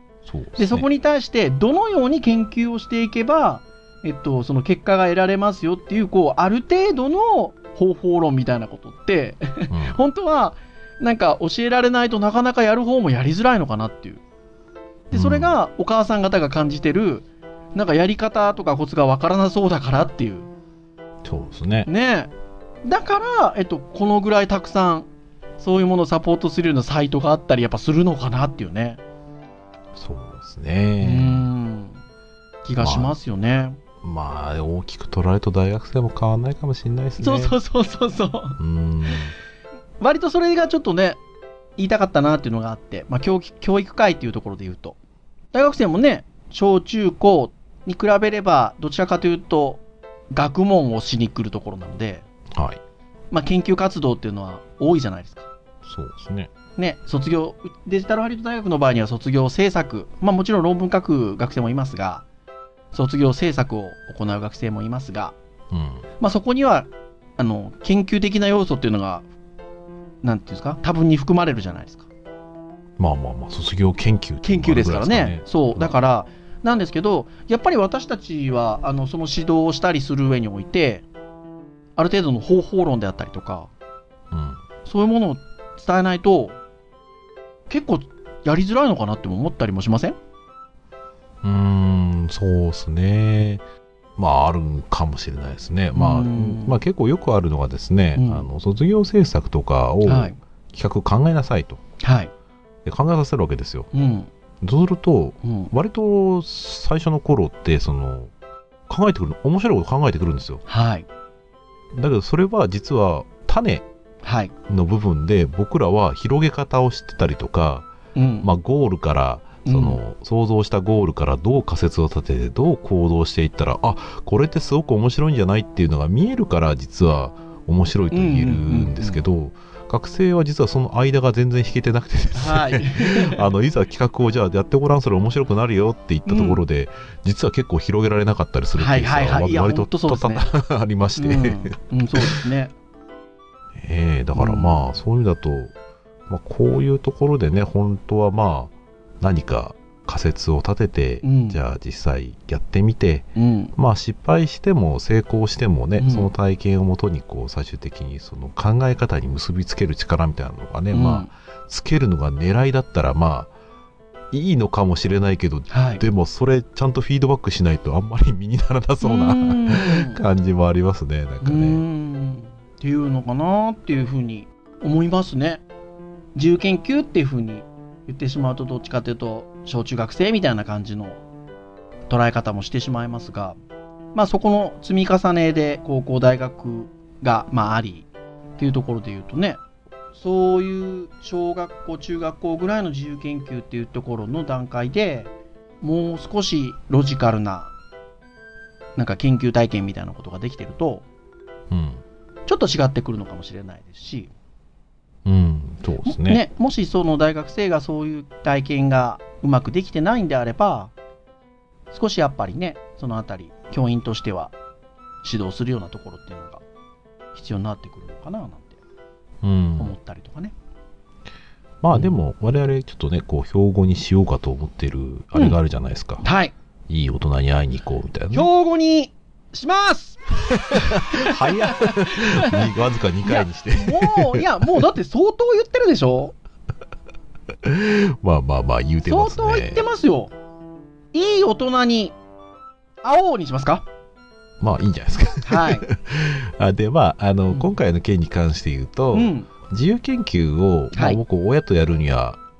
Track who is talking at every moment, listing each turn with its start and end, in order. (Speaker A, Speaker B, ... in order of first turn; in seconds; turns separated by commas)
Speaker A: 0.2-0.8, Speaker B: 0.6-14.2, Speaker A: 9.7-10.0, Speaker B: 15.1-20.5, Speaker A: 15.1-15.6, Speaker A: 21.2-21.9, Speaker B: 21.9-22.3, Speaker B: 22.8-25.1, Speaker B: 25.6-29.0, Speaker A: 29.9-31.4, Speaker B: 31.0-32.0, Speaker B: 32.6-33.8, Speaker A: 32.8-33.2, Speaker A: 34.0-37.5, Speaker B: 37.2-38.6, Speaker A: 38.6-39.3, Speaker B: 40.0-41.2, Speaker B: 41.8-45.0, Speaker B: 45.5-52.2, Speaker A: 52.5-52.8, Speaker B: 53.3-55.5, Speaker A: 55.8-56.5, Speaker B: 56.8-62.2, Speaker B: 62.9-65.3, Speaker A: 65.7-66.0, Speaker B: 66.2-69.3, Speaker B: 70.2-72.1, Speaker A: 73.0-76.0, Speaker B: 74.4-81.0, Speaker B: 82.0-83.7, Speaker A: 84.3-84.6, Speaker B: 84.8-86.6, Speaker B: 87.7-90.2, Speaker A: 91.4-93.6, Speaker A: 94.2-101.8, Speaker B: 95.9-96.8, Speaker B: 98.2-98.5, Speaker B: 100.0-100.4, Speaker B: 102.0-102.3, Speaker A: 102.8-103.9, Speaker B: 103.9-104.3, Speaker A: 104.6-108.3, Speaker B: 105.4-105.7, Speaker A: 108.9-110.6, Speaker B: 110.7-111.0, Speaker A: 111.9-113.8, Speaker B: 114.2-114.5, Speaker A: 114.7-117.9, Speaker B: 118.1-118.5, Speaker A: 118.4-142.3, Speaker B: 119.6-120.0, Speaker B: 128.1-129.2, Speaker B: 132.3-133.4, Speaker B: 136.2-136.6, Speaker B: 138.8-140.5, Speaker B: 141.2-142.7, Speaker A: 143.8-145.7, Speaker B: 144.3-144.7, Speaker A: 146.3-163.5, Speaker B: 151.2-151.6, Speaker B: 153.3-153.7, Speaker B: 156.0-156.3, Speaker B: 160.9-161.3, Speaker A: 164.3-171.8, Speaker B: 165.7-166.0, Speaker B: 169.0-170.2, Speaker B: 171.4-175.6, Speaker B: 176.3-181.2, Speaker B: 182.1-183.6, Speaker B: 184.1-188.1, Speaker B: 188.6-189.6, Speaker B: 190.1-197.7, Speaker B: 199.0-201.0, Speaker A: 201.7-202.0, Speaker B: 202.5-204.3, Speaker A: 205.2-206.4, Speaker B: 206.0-210.9, Speaker B: 211.9-214.5, Speaker B: 215.2-216.6, Speaker B: 217.3-218.8, Speaker A: 219.4-219.9, Speaker B: 219.8-220.5, Speaker A: 221.8-226.2, Speaker B: 226.2-226.5, Speaker A: 226.9-228.5, Speaker B: 228.3-232.7, Speaker A: 230.5-234.4, Speaker B: 233.2-236.3, Speaker A: 237.6-239.8, Speaker B: 239.1-240.3, Speaker B: 241.1-242.1, Speaker B: 243.0-243.8, Speaker A: 244.6-252.4, Speaker B: 245.4-245.9, Speaker B: 249.1-249.5, Speaker B: 250.9-251.2